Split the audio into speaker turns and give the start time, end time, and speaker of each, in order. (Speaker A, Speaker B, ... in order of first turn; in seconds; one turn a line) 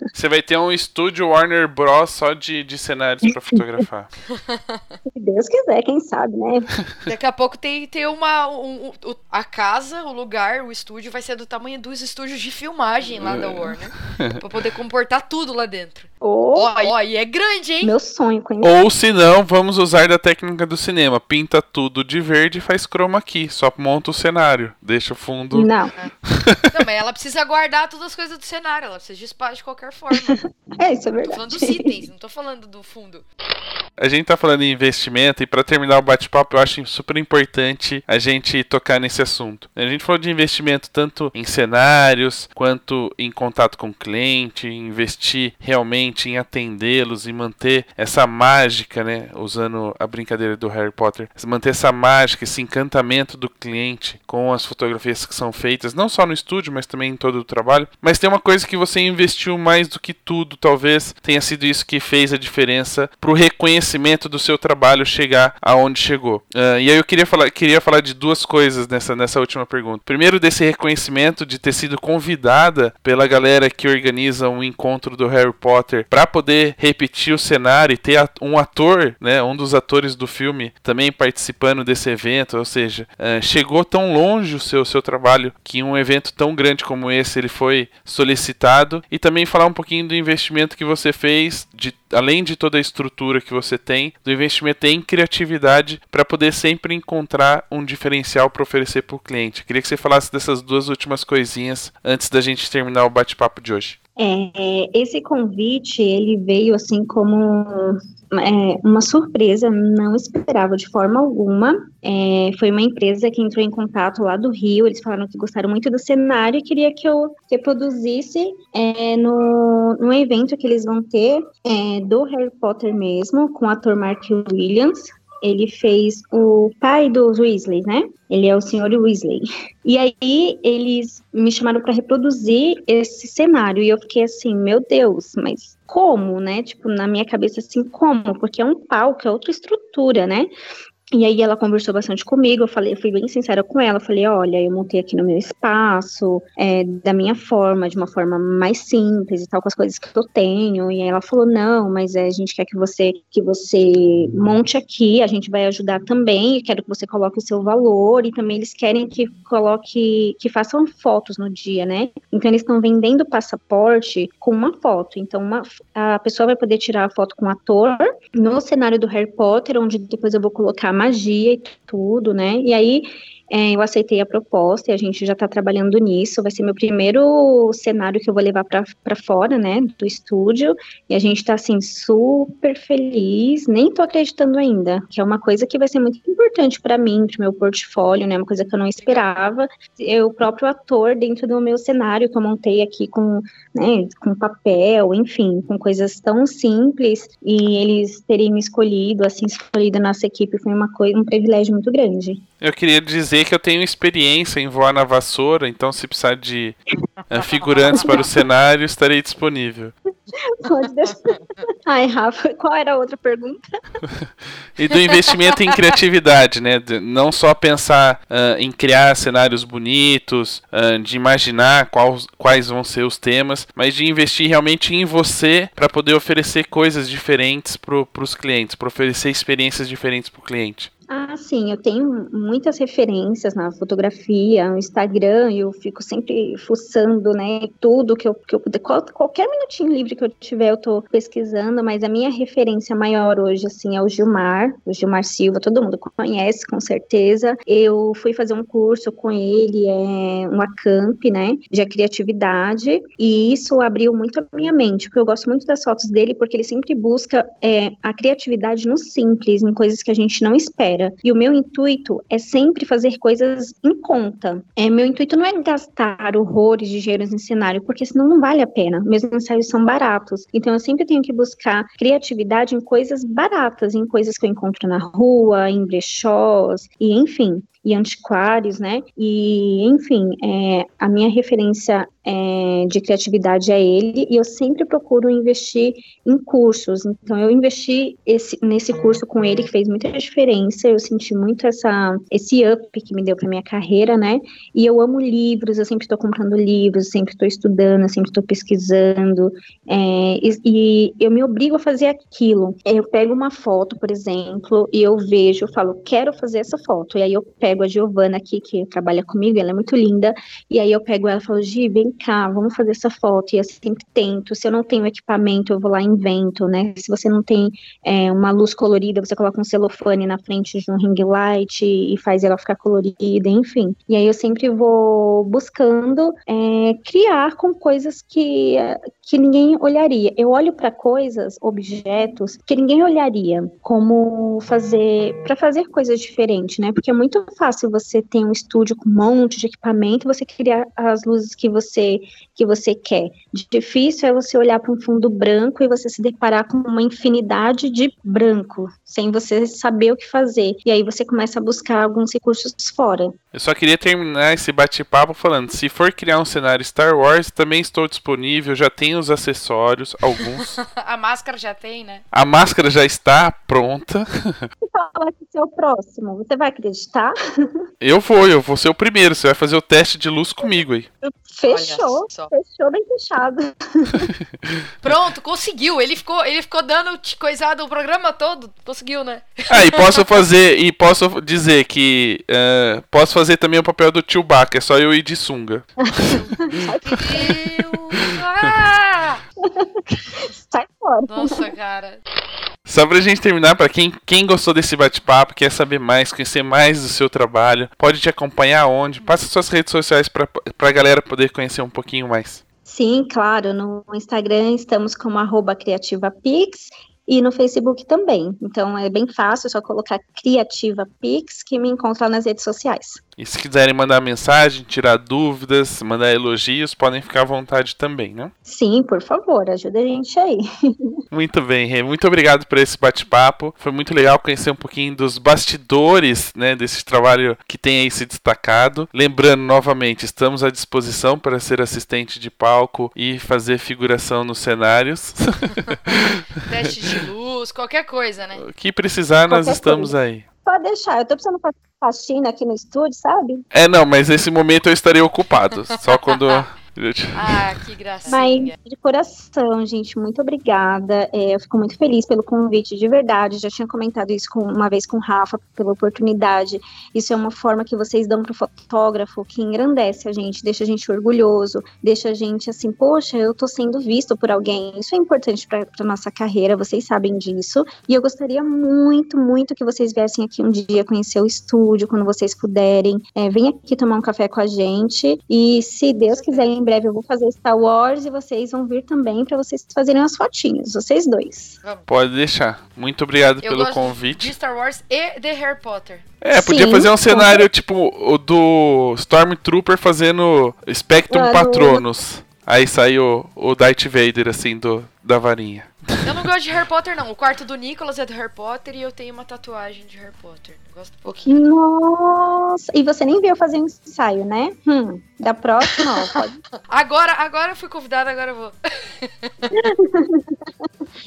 Speaker A: 0.1-4.1
Speaker B: 4.3-5.0
Speaker C: 5.1-6.7
Speaker B: 7.1-17.9
Speaker A: 13.2-14.4
Speaker C: 16.2-16.9
Speaker C: 17.8-18.7
Speaker A: 18.6-25.7
Speaker C: 25.5-25.9
Speaker A: 26.2-26.8
Speaker B: 26.7-30.4
Speaker C: 30.1-31.9
Speaker B: 31.2-33.2
Speaker A: 34.0-104.0
Speaker C: 104.2-140.5
Speaker C: 141.1-202.4
Speaker A: 202.6-206.8
Speaker A: 207.3-209.9
Speaker C: 210.4-213.6
Speaker A: 214.1-230.9
Speaker B: 215.1-215.8
Speaker C: 231.1-353.4
Speaker A: 353.5-360.7
Speaker B: 360.4-362.2
Speaker A: 362.3-364.6
Speaker C: 364.9-367.8
Speaker A: 368.0-371.1
Speaker C: 371.2-374.3
Speaker B: 371.7-372.5
Speaker B: 375.0-380.3
Speaker A: 379.7-386.4
Speaker C: 386.0-387.8
Speaker B: 387.0-389.4
Speaker C: 389.6-391.7
Speaker B: 391.3-392.2
Speaker A: 392.9-402.6
Speaker C: 402.9-413.2
Speaker A: 413.4-418.5
Speaker C: 418.6-421.2
Speaker A: 421.3-436.9
Speaker B: 436.1-438.6
Speaker A: 438.6-440.4
Speaker C: 439.5-440.1
Speaker C: 440.6-443.6
Speaker A: 443.7-447.6
Speaker B: 446.3-446.6
Speaker B: 447.4-448.7
Speaker C: 448.3-481.8
Speaker B: 476.2-476.7
Speaker A: 482.1-484.5
Speaker B: 483.6-486.2
Speaker A: 486.4-496.4
Speaker C: 486.5-487.6
Speaker C: 491.3-492.1
Speaker B: 496.2-501.6
Speaker C: 501.5-506.6
Speaker B: 505.9-506.3
Speaker B: 506.9-509.7
Speaker C: 509.7-510.6